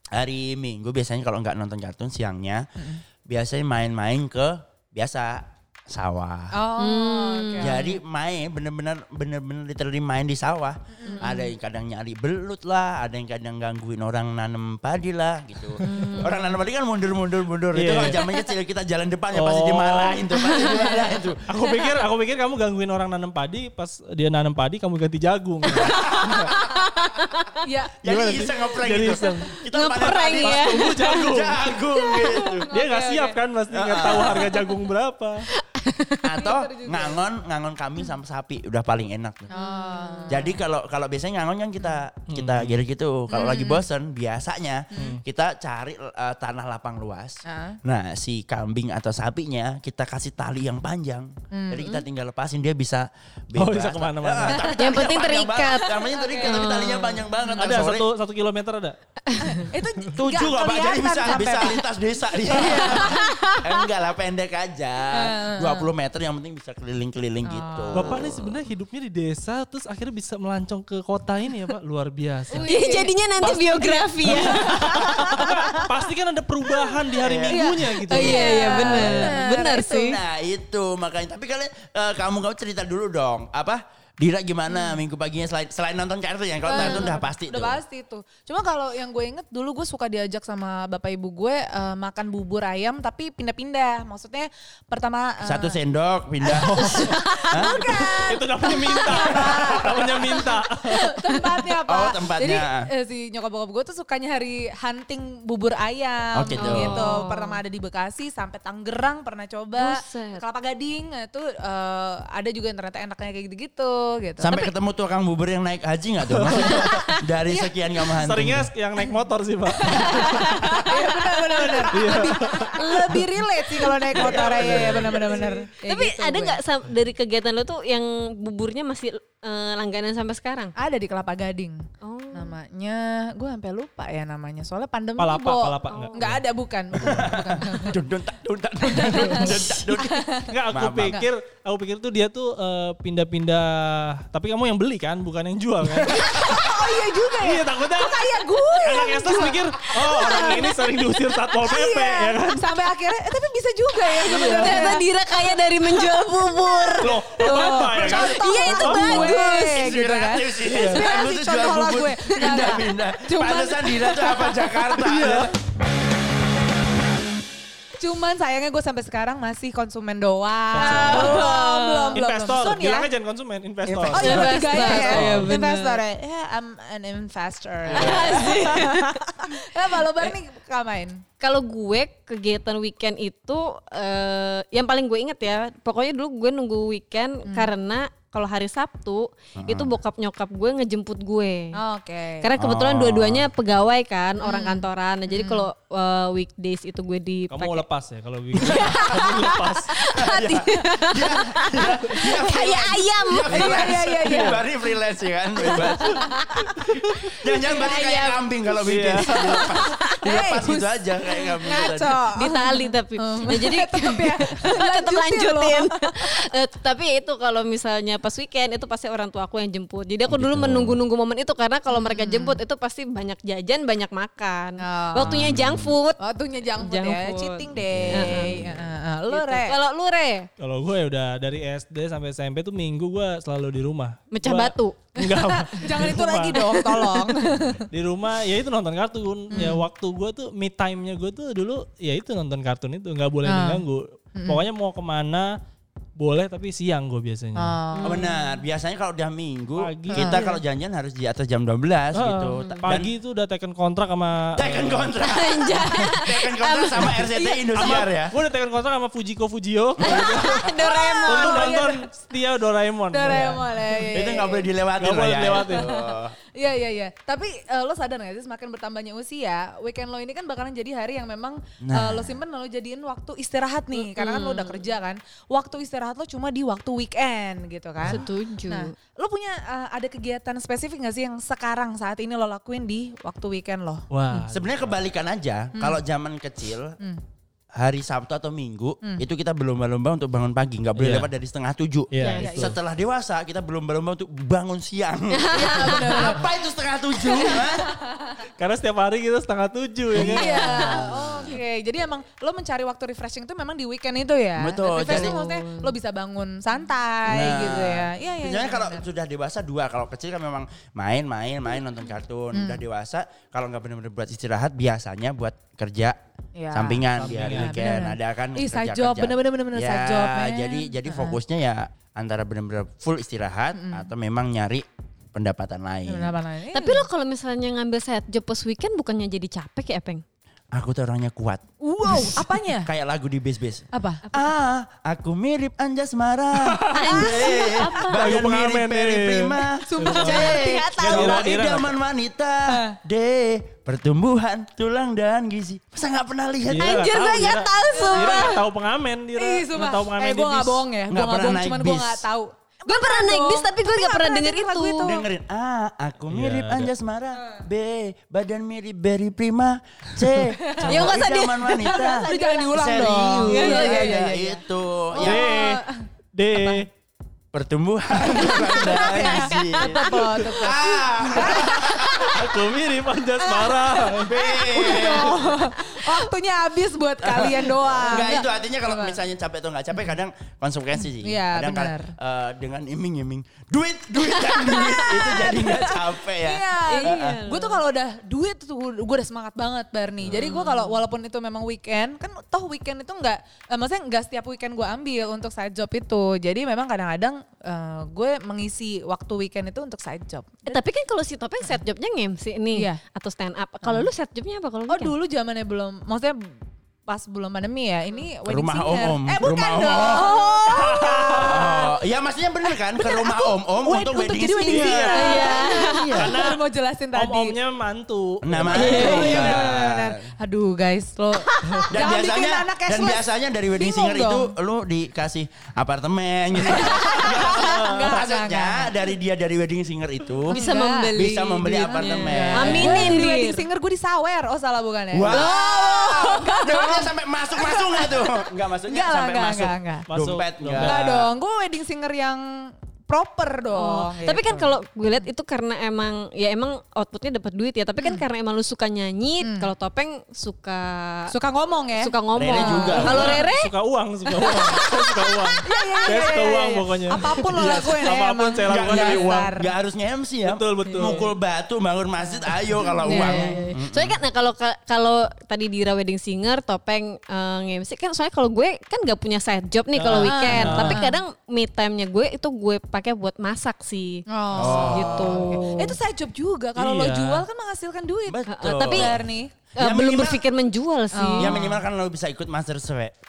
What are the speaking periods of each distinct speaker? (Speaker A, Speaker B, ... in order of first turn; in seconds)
Speaker A: 0.1-2.6, 3.2-6.6, 7.6-21.4, 25.8-26.8, 28.0-32.7, 33.7-34.5, 36.2-39.5, 40.3-58.1, 60.1-68.2, 74.8-75.2, 77.2-79.3, 80.0-87.8, 95.4-97.9, 99.2-99.5, 101.8-102.9, 106.3-107.1, 114.4-118.7, 124.2-125.4, 137.0-141.2, 145.9-146.8, 157.9-165.5, 173.8-175.5, 177.9-178.7, 189.6-189.9, 192.6-193.5, 198.7-199.1, 200.1-206.2, 207.2-212.2, 220.3-221.0, 225.2-225.9, 227.9-228.9, 248.0-253.1, 254.6-258.4, 260.0-260.6, 264.1-266.3, 271.8-272.4, 284.5-287.0, 287.8-297.9, 300.1-301.6, 304.6-305.4, 307.2-316.2, 316.7-326.3, 330.7-347.0, 351.1-352.2, 355.0-365.5, 367.5-372.3, 374.2-375.5, 377.2-387.2, 408.4-410.3, 411.4-416.4, 418.4-420.2, 421.9-430.6, 431.1-433.2, 435.1-441.3, 452.4-453.4, 458.7-464.2, 474.6-475.6, 478.3-479.2, 479.8-480.4, 481.4-483.1
Speaker B: 2.8-3.0, 6.5-7.9, 10.9-11.2, 20.7-21.1, 27.6-28.0, 32.7-33.4, 36.4-37.2, 39.5-40.6, 43.3-43.8, 47.5-47.8, 51.5-51.8, 54.5-55.0, 55.9-56.7, 57.4-57.8, 59.4-61.8, 62.4-63.2, 65.1-65.9, 67.4-68.2, 72.5-75.9, 77.5-80.2, 86.6-95.8, 96.8-114.6, 119.7-126.6, 130.8-137.9, 138.9-140.5, 146.3-156.0, 156.8-165.0, 168.0-173.1, 174.1-181.2, 191.8-192.5, 194.4-195.7, 203.4-204.7, 205.7-206.7, 207.5-208.4, 209.4-216.3, 221.9-222.6, 224.8-225.5, 226.2-229.8, 235.7-237.9, 239.5-239.8, 243.4-243.8, 244.4-244.6, 247.6-248.2, 250.1-250.6, 257.3-257.7, 260.8-262.2, 263.1-264.7, 265.6-284.1, 285.7-286.0, 292.3-292.8, 295.5-296.6, 297.1-298.4, 300.1-309.1, 312.5-312.8, 316.6-321.4, 323.7-324.1, 326.1-327.0, 331.8-332.9, 333.9-334.2, 337.1-338.0, 339.8-340.6, 342.7-342.9, 347.8-348.6, 349.4-355.2, 360.5-361.0, 361.8-364.6, 365.1-366.8, 368.3-372.4, 373.4-379.2, 381.1-382.1, 384.2-400.8, 402.7-403.0, 404.9-406.4, 407.1-411.9, 412.9-417.6, 418.6-424.5, 426.6-428.9, 430.5-440.1, 440.8-444.4, 448.0-448.2, 449.4-449.7, 451.3-453.3, 455.6-459.7, 462.2-463.6, 470.1-471.2, 474.3-479.5, 481.1-481.8
Speaker C: 6.8-7.9, 11.1-11.5, 15.8-16.5, 18.2-18.5, 20.4-21.1, 25.7-27.4, 29.2-31.2, 31.9-32.6, 34.0-34.8, 35.5-36.2, 39.5-40.4, 54.7-57.2, 62.6-63.5, 72.6-75.5, 78.1-80.2, 86.7-87.2, 106.5-107.6, 109.8-110.4, 116.7-117.1, 119.8-122.2, 122.7-123.1, 125.8-130.7, 132.0-132.5, 135.9-136.2, 154.1-157.2, 158.4-159.9, 170.7-172.2, 174.2-176.0, 177.9-179.2, 181.4-191.8, 192.4-197.8, 198.6-203.8, 205.7-207.2, 207.9-208.4, 209.4-210.2, 211.8-226.2, 226.8-228.6, 229.3-230.5, 234.3-235.8, 247.9-248.5, 252.5-252.9, 255.2-257.1, 260.0-261.8, 273.9-274.9, 278.0-278.9, 292.2-292.6, 295.4-296.4, 304.9-305.9, 326.7-330.2, 336.9-338.2, 340.1-341.5, 346.8-348.6, 352.9-355.2, 360.9-364.2, 386.9-387.8, 390.3-391.0, 400.6-405.1, 410.1-411.2, 415.1-416.0, 418.7-419.4, 421.5-421.8, 430.5-433.6, 435.3-436.5, 443.7-451.3, 451.9-453.7, 454.2-455.6, 463.0-476.0, 478.5-479.1, 479.8-481.6
Speaker D: 15.8-16.1, 17.7-18.2, 19.3-20.3, 21.5-26.5, 28.1-29.5, 30.4-31.7, 32.7-35.5, 42.3-42.8, 45.0-45.2, 53.5-54.7, 57.6-59.0, 67.9-73.0, 74.2-79.4, 96.5-101.2, 116.3-117.1, 118.1-120.7, 121.9-123.2, 124.2-125.6, 135.2-136.4, 140.4-146.2, 147.4-152.8, 154.2-154.9, 157.0-159.4, 160.7-161.0, 165.0-165.5, 170.7-171.5, 172.1-174.3, 197.5-199.9, 203.5-204.6, 208.8-209.6, 230.6-237.1, 237.9-245.5, 246.2-247.8, 249.8-250.3, 252.1-255.2, 257.7-260.6, 261.2-263.7, 265.0-265.9, 284.1-285.0, 290.9-291.3, 292.1-292.8, 298.6-300.8, 317.1-317.8, 336.6-341.9, 346.6-350.9, 356.3-356.9, 365.2-366.9, 370.0-370.4, 371.5-374.4, 410.7-411.9, 414.6-415.6, 416.1-416.6, 417.1-419.8, 427.4-428.1, 440.1-441.1, 452.9-459.5, 460.4-461.3, 469.9-471.1, 476.7-477.4